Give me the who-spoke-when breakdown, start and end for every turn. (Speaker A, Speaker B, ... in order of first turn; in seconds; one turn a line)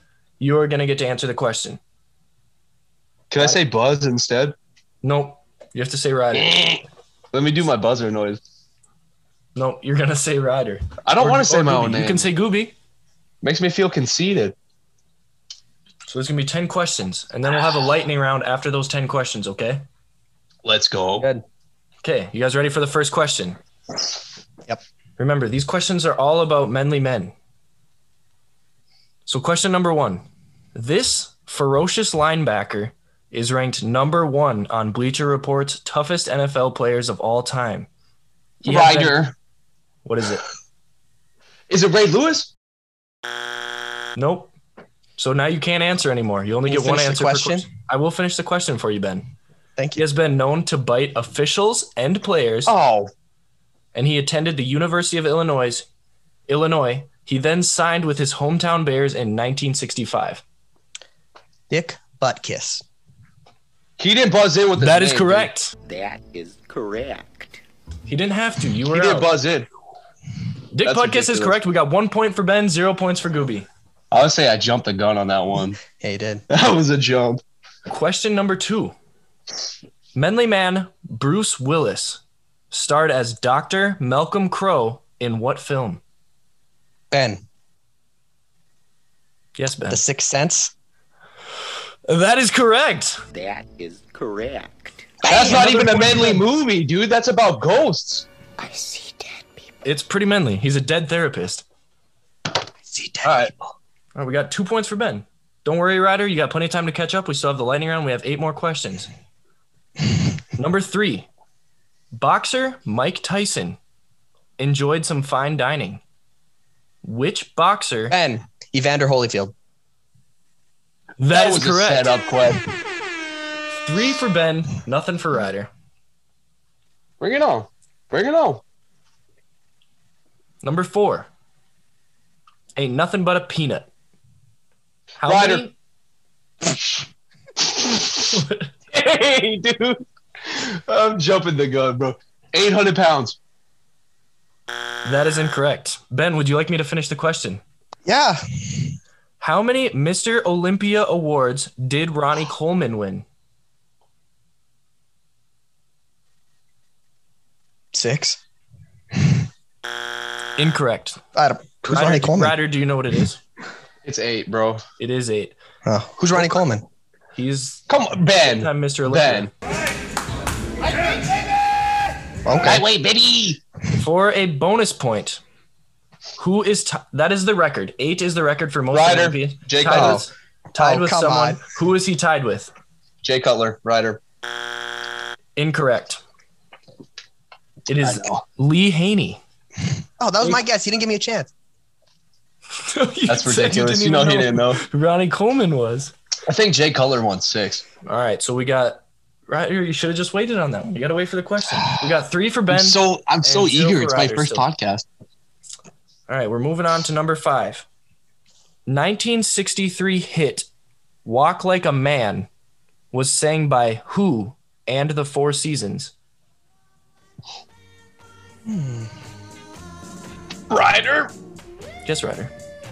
Speaker A: 0.4-1.8
Speaker B: 3.3-4.5
Speaker A: 5.0-6.6
Speaker B: 7.3-8.4
Speaker A: 9.5-12.7
Speaker B: 11.1-12.3
Speaker B: 13.4-14.5
Speaker A: 16.1-19.8
Speaker B: 20.6-21.3
Speaker A: 22.0-23.6
Speaker A: 25.2-27.3
Speaker A: 29.2-37.9
Speaker B: 38.6-39.3
Speaker A: 38.6-39.2
Speaker A: 40.0-40.4
Speaker B: 41.7-42.5
Speaker A: 44.1-44.5
Speaker A: 45.2-49.3
Speaker C: 46.6-47.7
Speaker A: 50.0-52.7
Speaker B: 52.6-53.1
Speaker A: 53.9-55.9
Speaker A: 56.5-60.4
Speaker C: 61.7-62.8
Speaker B: 64.0-65.5
Speaker A: 64.8-65.7
Speaker D: 65.8-67.6
Speaker A: 68.1-69.3
Speaker B: 68.9-69.7
Speaker A: 70.7-73.7
Speaker B: 70.8-71.6
Speaker B: 74.1-75.8
Speaker C: 76.0-76.4
Speaker B: 76.5-77.4
Speaker A: 77.9-78.9
Speaker A: 80.1-86.0
Speaker C: 87.1-87.4
Speaker A: 89.6-90.0
Speaker C: 89.9-90.7
Speaker A: 92.1-93.2
Speaker D: 93.3-95.1
Speaker B: 95.3-98.2
Speaker A: 95.3-96.4
Speaker C: 95.3-95.8
Speaker A: 99.8-101.6
Speaker C: 102.9-103.5
Speaker B: 103.2-103.5
Speaker A: 104.1-109.1
Speaker A: 110.5-111.3
Speaker A: 112.1-113.8
Speaker A: 114.6-116.0
Speaker A: 117.0-118.2
Speaker C: 118.1-119.5
Speaker A: 121.2-122.2
Speaker B: 121.3-122.6
Speaker A: 123.8-125.7
Speaker B: 127.2-128.6
Speaker A: 130.6-131.3
Speaker A: 132.8-133.9
Speaker A: 135.2-135.7
Speaker B: 135.2-135.7
Speaker A: 138.3-138.7
Speaker B: 138.9-143.4
Speaker A: 145.0-147.6
Speaker C: 148.1-148.9
Speaker A: 149.4-153.2
Speaker C: 157.9-158.4
Speaker A: 160.6-161.2
Speaker C: 161.3-162.6
Speaker A: 161.8-163.4
Speaker B: 164.0-164.8
Speaker A: 165.0-165.6
Speaker C: 165.8-166.8
Speaker A: 167.3-167.8
Speaker B: 167.9-169.5
Speaker A: 168.3-169.5
Speaker C: 172.4-172.8
Speaker B: 172.6-173.6
Speaker A: 173.9-175.4
Speaker A: 176.4-182.7
Speaker B: 178.9-180.2
Speaker C: 179.8-180.2
Speaker C: 180.8-181.6
Speaker B: 183.2-184.2
Speaker A: 185.6-186.2
Speaker A: 187.9-189.4
Speaker B: 188.0-188.4
Speaker C: 190.2-191.5
Speaker A: 192.8-196.1
Speaker B: 193.3-194.8
Speaker B: 196.4-197.8
Speaker A: 198.0-204.7
Speaker B: 202.7-205.1
Speaker A: 206.3-207.8
Speaker A: 208.9-210.7
Speaker A: 211.2-212.5
Speaker A: 213.1-216.1
Speaker C: 218.7-219.1
Speaker B: 220.7-221.3
Speaker A: 222.0-222.5